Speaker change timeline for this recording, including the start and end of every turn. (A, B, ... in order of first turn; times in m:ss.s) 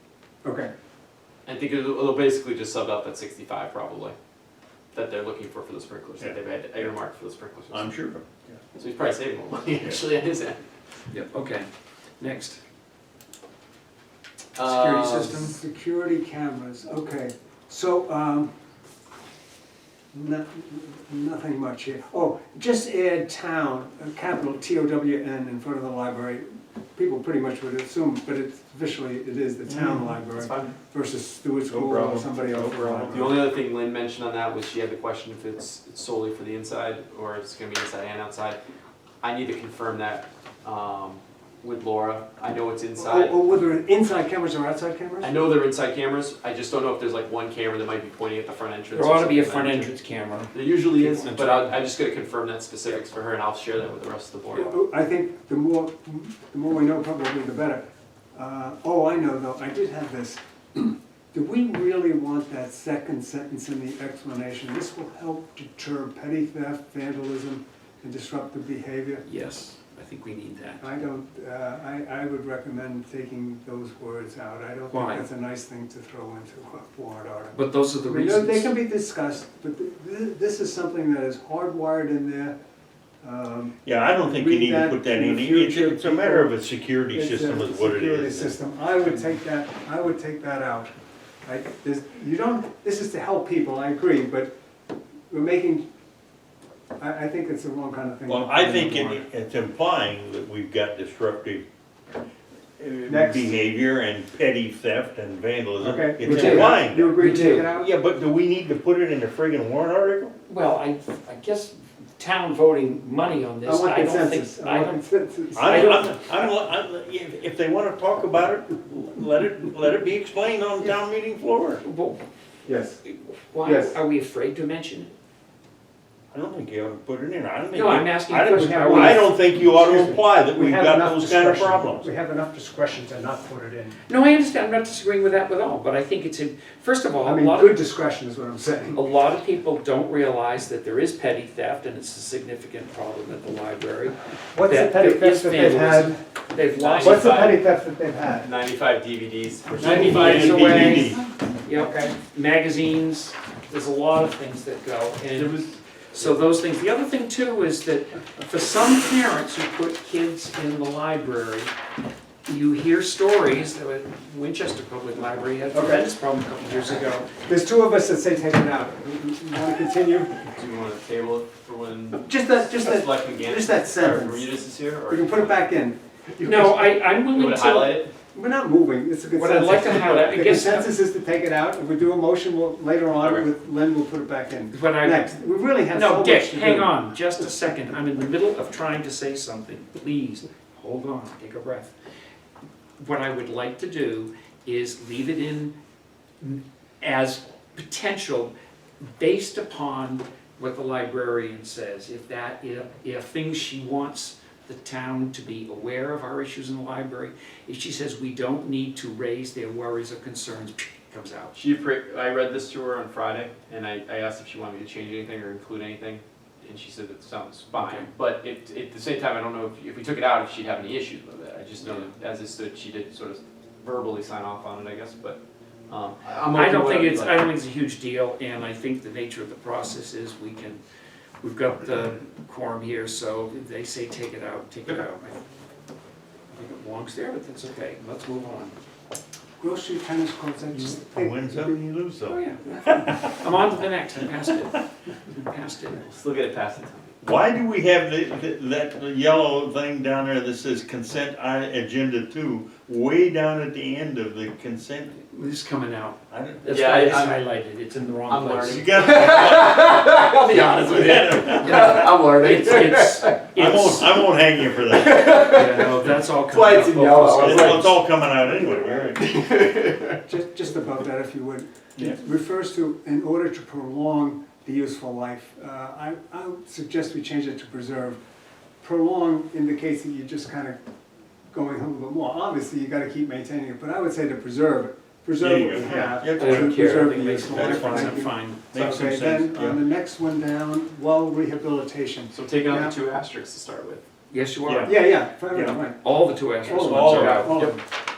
0:00.4-0:00.7 A
0:01.4-0:04.1 B
0:04.9-0:07.9 B
0:07.7-0:08.6 C
0:08.7-0:10.6 B
0:11.1-0:11.7 D
0:12.2-0:12.6 D
0:14.6-0:15.4 B
0:14.6-0:15.6 D
0:15.4-0:18.5 A
0:20.1-0:33.4 A
0:29.7-0:30.2 C
0:30.4-0:30.7 B
0:31.7-0:33.3 C
0:33.1-0:38.6 B
0:39.2-0:43.4 B
0:43.0-0:45.3 A
0:45.2-0:49.9 B
0:48.9-0:51.8 D
0:50.5-0:54.7 B
0:54.5-1:09.2 A
1:09.2-1:10.8 D
1:10.8-1:22.6 A
1:14.9-1:15.2 D
1:17.5-1:18.7 D
1:23.2-1:26.5 A
1:23.8-1:28.5 C
1:27.1-1:30.9 A
1:31.4-1:34.5 A
1:35.3-1:35.9 A
1:37.0-1:39.2 A
1:38.3-1:41.6 C
1:42.8-1:50.3 C
1:43.1-1:43.6 A
1:45.8-1:47.9 A
1:46.2-1:47.7 D
1:50.4-1:55.0 D
1:53.6-1:56.1 A
1:55.6-2:01.8 C
1:55.6-1:56.0 D
2:01.8-2:02.2 D
2:02.6-2:03.0 A
2:03.0-2:05.1 D
2:03.6-2:04.0 A
2:06.3-2:12.1 C
2:07.7-2:09.2 D
2:08.4-2:14.0 A
2:14.1-2:17.8 D
2:17.2-2:19.0 A
2:18.9-2:27.4 D
2:24.5-2:26.2 A
2:26.6-2:27.7 B
2:27.0-2:28.5 A
2:28.4-2:30.6 B
2:29.7-2:31.2 C
2:29.8-2:35.6 D
2:29.8-2:32.1 A
2:35.3-2:36.3 B
2:36.1-2:41.7 D
2:42.4-2:47.3 D
2:45.7-2:46.1 A
2:47.4-2:50.5 A
2:50.5-2:55.7 B
2:52.2-2:54.5 A
2:55.1-2:56.0 A
2:56.3-2:58.1 B
2:56.4-2:58.1 D
2:58.3-3:07.1 A
2:59.3-3:00.9 D
2:59.9-3:00.6 B
3:03.2-3:03.5 B
3:04.7-3:05.3 D
3:05.8-3:11.9 D
3:13.0-3:15.7 D
3:16.4-3:18.5 D
3:19.2-3:31.5 D
3:31.5-3:47.5 B
3:37.8-3:38.1 D
3:46.5-3:50.8 D
3:51.4-3:55.4 D
3:56.5-3:58.8 D
3:59.6-4:01.8 A
4:01.1-4:03.3 C
4:02.3-4:06.0 D
4:05.9-4:07.2 B
4:07.2-4:15.2 C
4:15.2-4:19.0 D
4:16.3-4:16.7 C
4:16.7-4:17.4 B
4:18.3-4:23.4 B
4:18.7-4:19.8 C
4:20.7-4:22.1 C
4:21.5-4:24.3 D
4:23.6-4:25.4 C
4:24.6-4:28.0 B
4:25.4-4:27.9 D
4:27.2-4:29.4 C
4:28.9-4:30.2 B
4:30.2-4:38.2 A
4:38.8-4:40.8 A
4:41.5-4:52.9 A
4:45.4-4:49.8 C
4:46.2-4:48.6 D
4:52.3-4:54.0 B
4:54.3-4:55.0 D
4:54.6-4:54.9 C
4:54.8-4:56.0 A
4:56.0-4:57.7 D
4:56.6-4:57.6 C
4:56.6-4:57.8 A
4:57.2-4:57.7 B